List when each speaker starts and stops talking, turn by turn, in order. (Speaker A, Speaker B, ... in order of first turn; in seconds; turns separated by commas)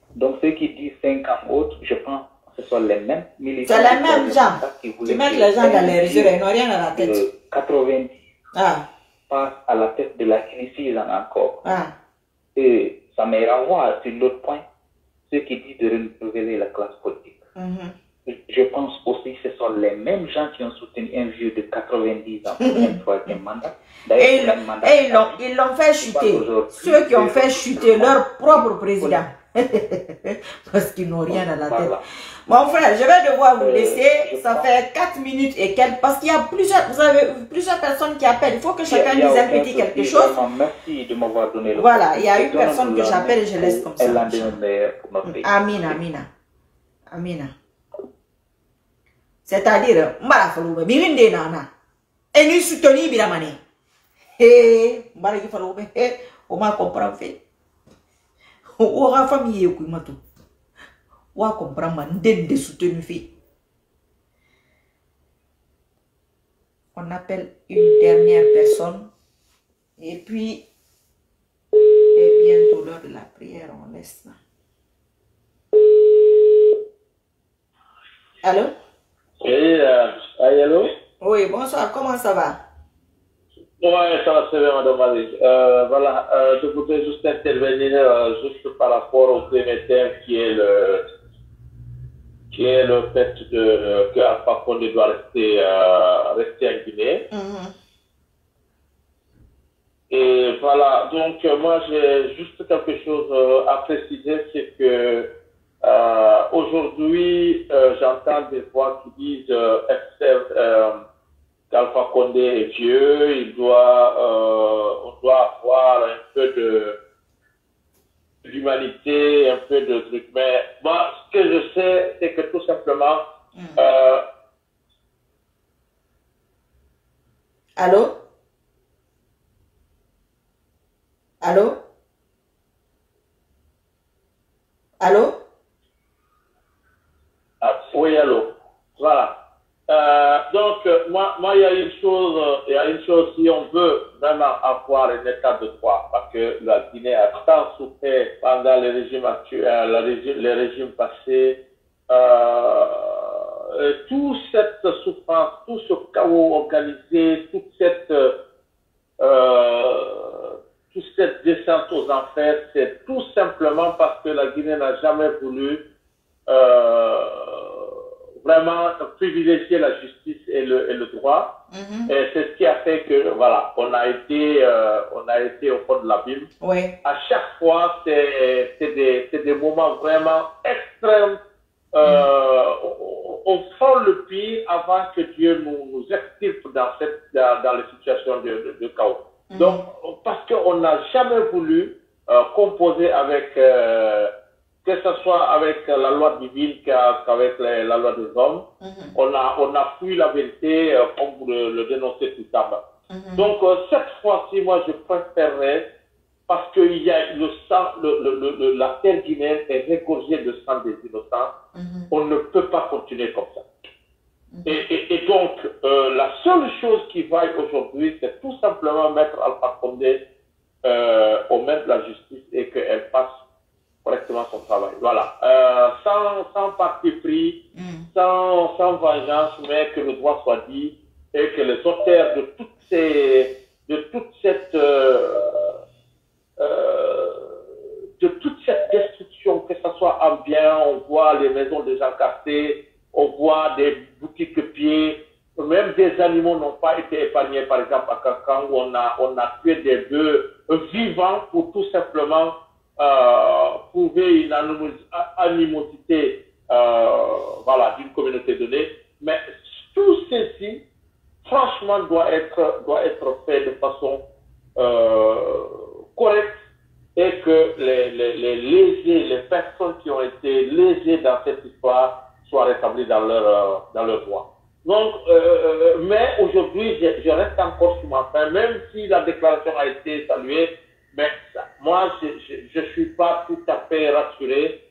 Speaker A: 0.1-6.3, Speaker B: 3.6-7.1, Speaker A: 6.9-8.2, Speaker B: 8.5-8.8, Speaker A: 9.3-11.6, Speaker B: 11.6-11.9, Speaker A: 12.5-14.6, Speaker A: 15.3-17.4, Speaker B: 17.6-17.9, Speaker A: 18.2-25.4, Speaker B: 22.6-23.4, Speaker B: 24.2-40.4, Speaker A: 26.0-29.2, Speaker A: 31.3-32.0, Speaker A: 33.6-34.7, Speaker A: 38.9-45.5, Speaker B: 41.8-44.6, Speaker B: 45.3-46.3, Speaker B: 47.1-47.5, Speaker B: 49.5-51.7, Speaker B: 52.3-53.6, Speaker B: 54.4-57.4, Speaker B: 58.8-60.2, Speaker B: 61.3-63.3, Speaker B: 66.9-69.1, Speaker B: 70.0-70.7, Speaker B: 72.1-74.4, Speaker B: 78.4-78.7, Speaker C: 79.4-80.9, Speaker B: 81.2-82.6, Speaker C: 83.8-91.0, Speaker C: 92.5-97.2, Speaker B: 97.3-97.7, Speaker C: 100.1-105.3, Speaker C: 105.8-111.0, Speaker C: 111.7-117.0, Speaker C: 118.4-123.2, Speaker C: 123.8-124.2, Speaker B: 127.8-128.2, Speaker B: 131.4-131.8, Speaker B: 135.0-135.4, Speaker C: 137.6-139.3, Speaker C: 139.9-151.5, Speaker C: 152.1-153.2, Speaker C: 153.8-158.3, Speaker C: 159.2-160.4, Speaker C: 160.9-165.8, Speaker C: 166.5-167.7, Speaker C: 168.4-171.5, Speaker B: 171.7-172.1, Speaker C: 172.1-176.4, Speaker B: 176.6-176.9, Speaker C: 177.0-181.4, Speaker C: 182.0-194.3, Speaker B: 182.0-182.3, Speaker B: 189.5-189.9, Speaker C: 194.8-198.6, Speaker B: 198.8-199.1, Speaker C: 199.2-202.8, Speaker B: 203.1-203.5, Speaker C: 203.4-205.8, Speaker C: 206.5-211.5, Speaker B: 211.7-212.1, Speaker C: 212.1-213.6, Speaker B: 214.5-214.8, Speaker C: 214.7-220.2, Speaker C: 220.8-223.3, Speaker C: 224.0-227.6, Speaker B: 227.8-228.1, Speaker C: 228.1-235.4, Speaker C: 236.6-237.4, Speaker C: 238.2-252.5, Speaker C: 253.0-259.3, Speaker C: 259.9-260.8, Speaker C: 261.4-264.2, Speaker C: 264.8-265.6, Speaker C: 266.1-266.5, Speaker C: 267.2-284.6